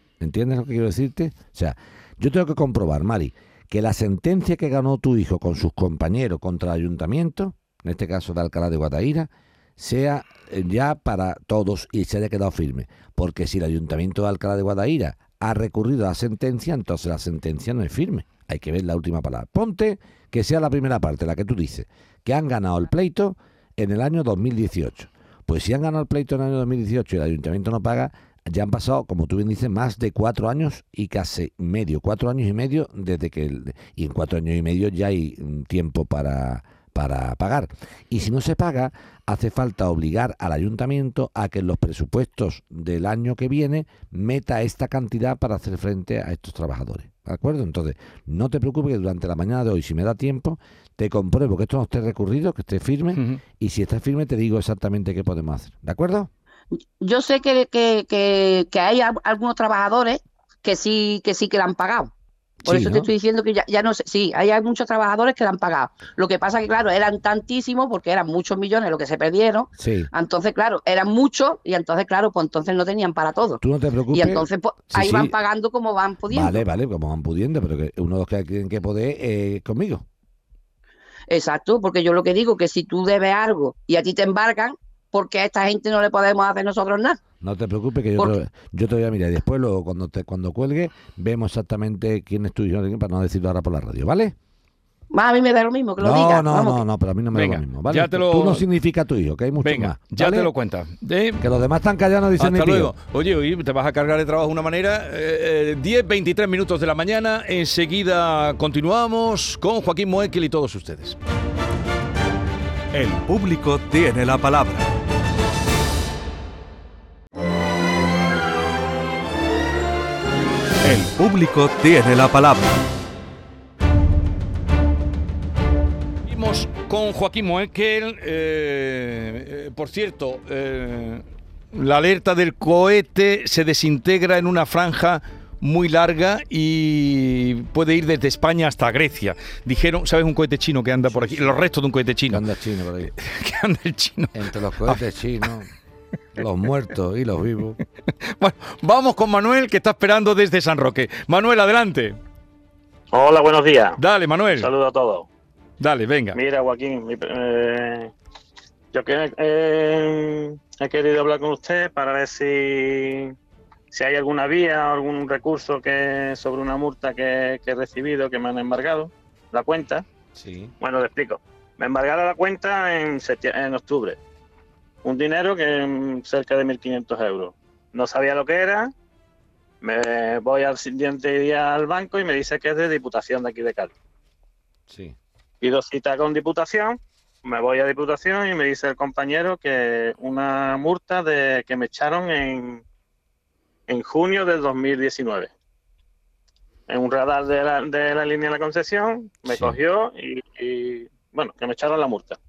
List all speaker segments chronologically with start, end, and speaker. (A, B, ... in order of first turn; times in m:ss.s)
0:00.2-0:56.3 A
0:53.2-0:53.4 B
0:57.0-1:02.1 C
1:02.6-1:03.1 A
1:02.6-1:16.6 C
1:09.8-1:10.1 A
1:13.6-1:15.3 A
1:16.3-1:20.0 A
1:21.3-1:27.2 C
1:27.4-1:34.3 A
1:35.1-1:36.8 C
1:36.0-1:40.5 A
1:37.3-1:38.6 B
1:39.6-1:41.4 B
1:41.4-1:42.9 A
1:42.4-1:51.2 B
1:52.9-1:54.9 D
2:00.8-2:02.8 D
2:06.2-2:22.4 B
2:21.1-2:21.5 A
2:22.3-2:23.1 A
2:23.1-2:25.5 B
2:24.3-2:25.7 A
2:26.4-2:27.8 A
2:28.2-2:32.2 B
2:33.1-2:34.0 E
2:34.0-2:34.7 B
2:34.5-2:35.3 E
2:35.8-2:36.4 B
2:36.3-2:38.1 E
2:38.9-2:43.3 E
2:43.9-2:50.0 E
2:50.3-2:50.7 A
2:50.8-2:54.2 E
2:55.0-2:58.9 E
2:59.8-3:03.9 E
3:04.9-3:05.2 A
3:05.6-3:12.8 E
3:13.9-3:15.5 E
3:16.9-3:22.4 E
3:19.5-3:19.8 A